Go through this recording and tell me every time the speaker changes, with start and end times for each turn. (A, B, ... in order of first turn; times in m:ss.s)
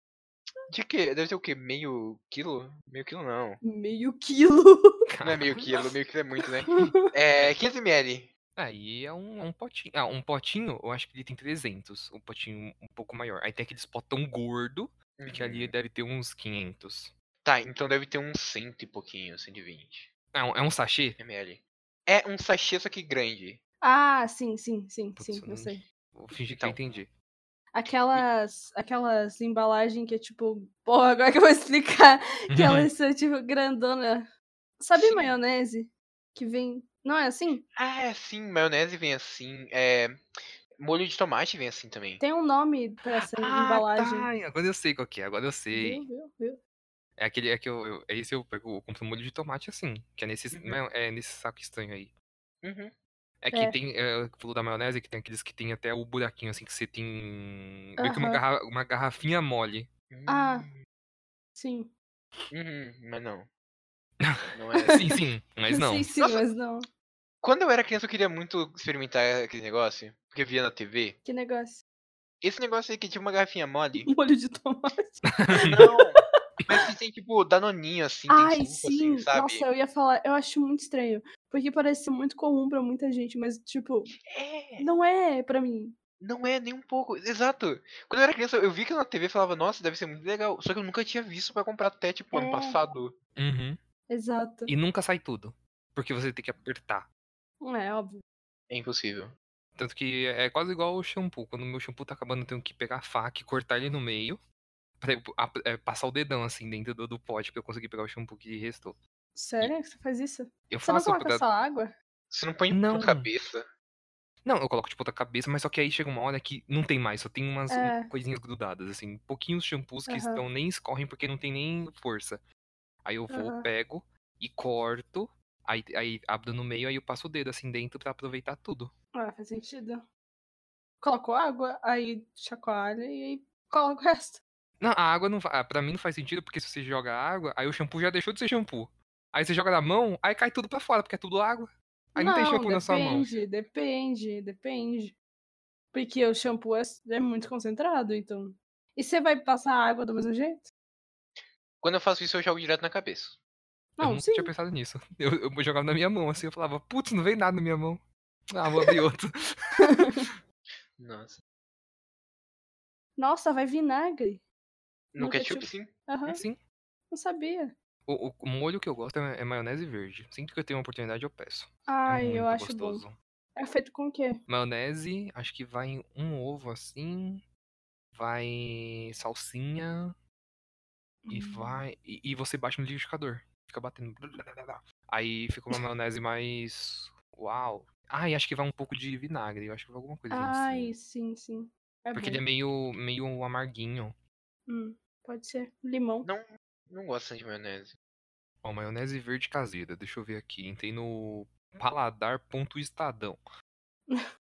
0:00.7-0:03.6 A
0:03.6-0:05.0 B
0:05.1-0:05.8 C
0:05.2-0:08.3 A
0:06.7-0:07.1 B
0:08.6-0:17.1 C
0:15.2-0:15.7 A
0:17.4-0:20.1 A
0:20.3-0:21.2 C
0:21.2-0:23.6 A
0:23.8-0:25.8 B
0:25.2-0:27.1 C
0:26.4-0:26.8 A
0:27.7-0:34.3 B
0:32.5-0:32.9 C
0:34.8-0:37.6 B
0:35.0-0:35.3 A
0:37.8-0:40.2 A
0:40.8-0:42.2 A
0:42.2-0:44.3 B
0:43.2-0:46.0 C
0:45.7-0:46.6 B
0:47.2-0:52.1 C
0:50.5-0:50.8 A
0:52.6-0:52.9 A
0:53.4-0:59.9 C
0:58.0-0:58.4 B
1:00.1-1:00.8 A
1:00.3-1:00.7 B
1:01.6-1:01.9 B
1:02.5-1:03.5 A
1:04.2-1:06.1 C
1:04.5-1:05.0 A
1:05.7-1:06.9 B
1:06.2-1:06.4 A
1:07.4-1:11.2 A
1:11.2-1:11.8 B
1:12.4-1:14.1 A
1:14.0-1:16.0 B
1:15.4-1:15.7 C
1:15.6-1:16.2 A
1:16.7-1:19.7 A
1:18.3-1:24.1 B
1:24.2-1:24.8 A
1:24.8-1:26.0 B
1:26.2-1:33.1 A
1:32.3-1:32.8 B
1:33.4-1:33.8 C
1:34.1-1:34.7 B
1:34.7-1:37.1 C
1:37.6-1:38.2 B
1:38.7-1:39.3 A
1:39.8-1:44.4 C
1:45.0-1:49.0 C
1:49.3-1:51.9 B
1:50.7-1:51.4 C
1:52.3-1:53.6 A
1:52.7-1:53.3 C
1:54.4-2:02.4 C
1:57.7-1:58.1 B
2:00.1-2:00.4 B
2:03.0-2:08.9 C
2:03.3-2:03.7 B
2:09.1-2:10.0 B
2:11.0-2:14.4 B
2:14.8-2:23.3 C
2:22.1-2:25.2 B
2:25.9-2:30.7 B
2:31.4-2:33.4 A
2:34.0-2:34.5 B
2:34.0-2:40.3 C
2:39.8-2:40.3 B
2:41.0-2:41.4 A
2:43.2-2:44.4 B
2:45.1-2:45.9 A
2:45.2-2:46.4 B
2:46.3-2:46.6 C
2:47.1-2:47.7 B
2:48.1-2:53.1 C
2:51.9-2:53.0 B
2:53.6-2:54.4 B
2:54.5-2:57.4 C
2:58.1-3:00.1 C
3:01.2-3:01.8 B
3:01.3-3:10.9 C
3:10.3-3:12.4 B
3:12.1-3:14.1 C
3:14.7-3:16.3 B
3:16.2-3:17.9 A
3:18.6-3:23.4 C